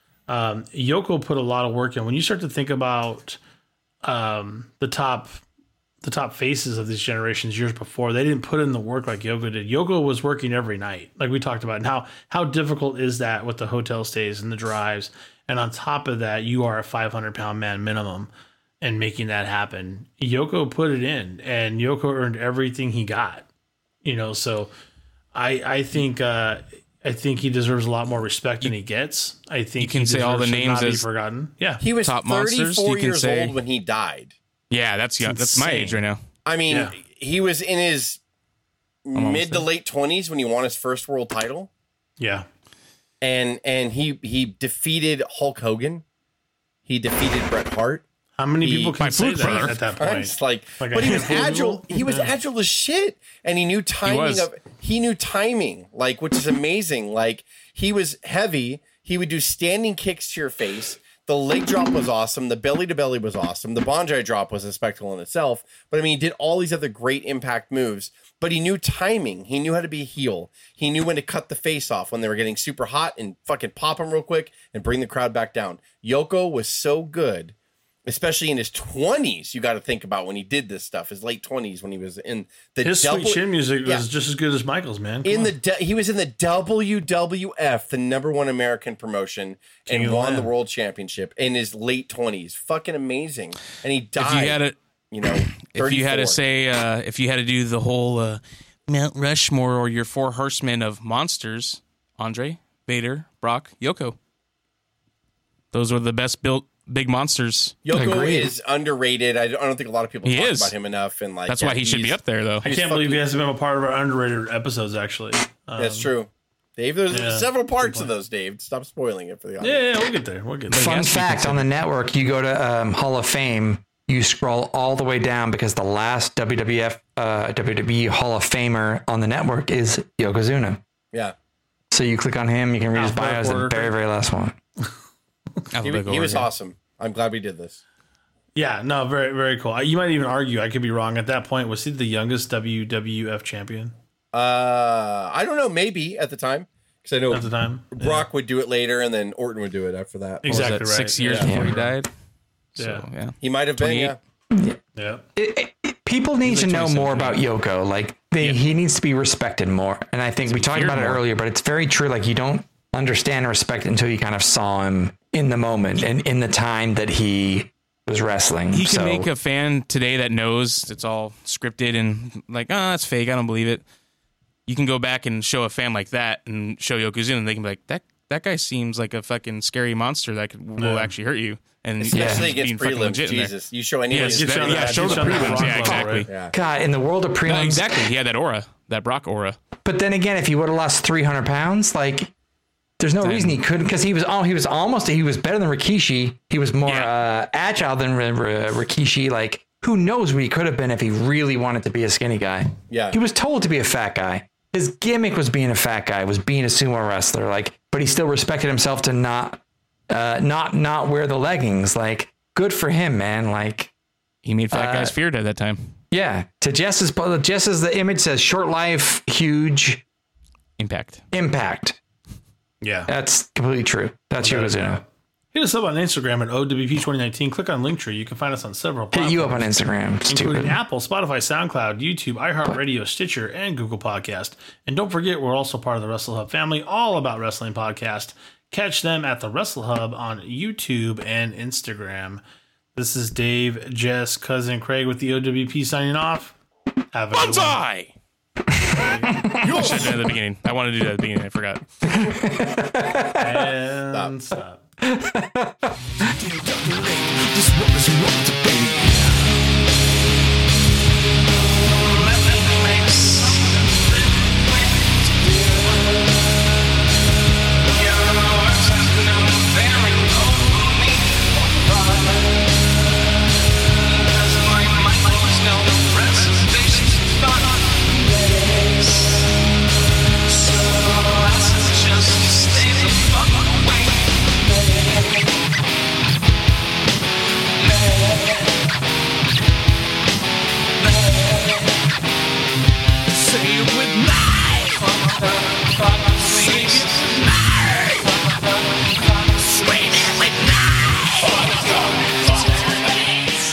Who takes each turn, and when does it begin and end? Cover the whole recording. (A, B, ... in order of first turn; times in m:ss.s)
0:00.3-0:03.4 A
0:04.0-0:05.4 A
0:06.0-0:23.5 A
0:24.0-0:24.7 A
0:25.3-0:31.8 A
0:29.8-0:31.0 B
0:31.8-0:34.3 C
0:32.0-0:33.6 B
0:34.7-0:36.2 B
0:35.2-0:36.0 A
0:36.4-0:38.2 C
0:36.7-0:37.0 A
0:39.0-0:41.7 C
0:39.1-0:39.6 B
0:42.2-0:42.5 A
0:43.2-0:46.0 C
0:46.8-0:48.0 C
0:48.4-0:52.4 A
0:48.6-1:17.5 C
0:49.0-0:49.8 B
0:54.0-0:54.5 B
1:18.1-1:24.0 C
1:22.8-1:25.5 A
1:25.2-1:36.4 C
1:29.9-1:30.5 A
1:34.2-1:34.8 B
1:35.4-1:44.2 B
1:45.7-1:47.8 B
1:47.8-1:53.2 C
1:47.9-1:48.5 D
1:50.2-1:50.7 B
1:51.5-1:52.7 B
1:52.6-1:56.1 A
1:55.8-1:59.8 C
1:57.1-1:58.1 A
1:59.6-2:01.7 A
2:00.7-2:10.8 D
2:00.7-2:01.0 B
2:11.9-2:14.6 D
2:12.9-2:14.0 A
2:15.7-2:16.5 B
2:15.8-2:17.8 C
2:18.6-2:23.9 A
2:24.3-2:30.7 C
2:27.3-2:28.3 A
2:30.4-2:31.9 A
2:30.4-2:32.1 B
2:31.2-2:31.5 C
2:31.4-2:31.7 D
2:32.7-2:34.1 B
2:32.8-2:33.0 A
2:33.4-2:34.2 C
2:34.5-2:34.8 D
2:35.0-2:35.2 A
2:35.4-2:49.3 D
2:36.4-2:37.4 B
2:40.5-2:41.2 B
2:48.7-2:53.8 B
2:54.7-3:03.5 B
3:00.8-3:01.1 A
3:02.0-3:06.5 C
3:02.1-3:02.5 D
3:04.1-3:06.3 B
3:04.3-3:06.3 A
3:05.4-3:08.1 D
3:07.5-3:09.6 B
3:09.8-3:12.3 D
3:13.0-3:33.9 D
3:13.2-3:13.6 B
3:16.8-3:17.1 B
3:22.9-3:23.2 C
3:34.4-3:35.9 B
3:34.7-3:35.1 D
3:36.1-3:40.0 D
3:40.8-3:41.2 B
3:41.3-3:42.0 D
3:42.8-3:43.1 A
3:43.1-3:45.0 D
3:44.4-4:02.4 A
3:49.1-3:50.8 D
4:02.9-4:06.5 A
4:07.1-4:07.8 A
4:07.3-4:08.1 B
4:08.9-4:09.3 A
4:08.9-4:10.0 D
4:09.6-4:10.3 C
4:09.6-4:11.8 B
4:12.0-4:13.7 D
4:13.3-4:14.8 A
4:15.0-4:16.0 D
4:16.5-4:19.3 E
4:22.2-4:23.6 E
4:28.2-4:31.1 E
4:34.8-4:37.5 E
4:40.7-4:43.9 E
4:53.8-4:54.2 E
4:56.6-4:57.0 B
4:56.7-4:57.8 E
5:01.4-5:03.2 E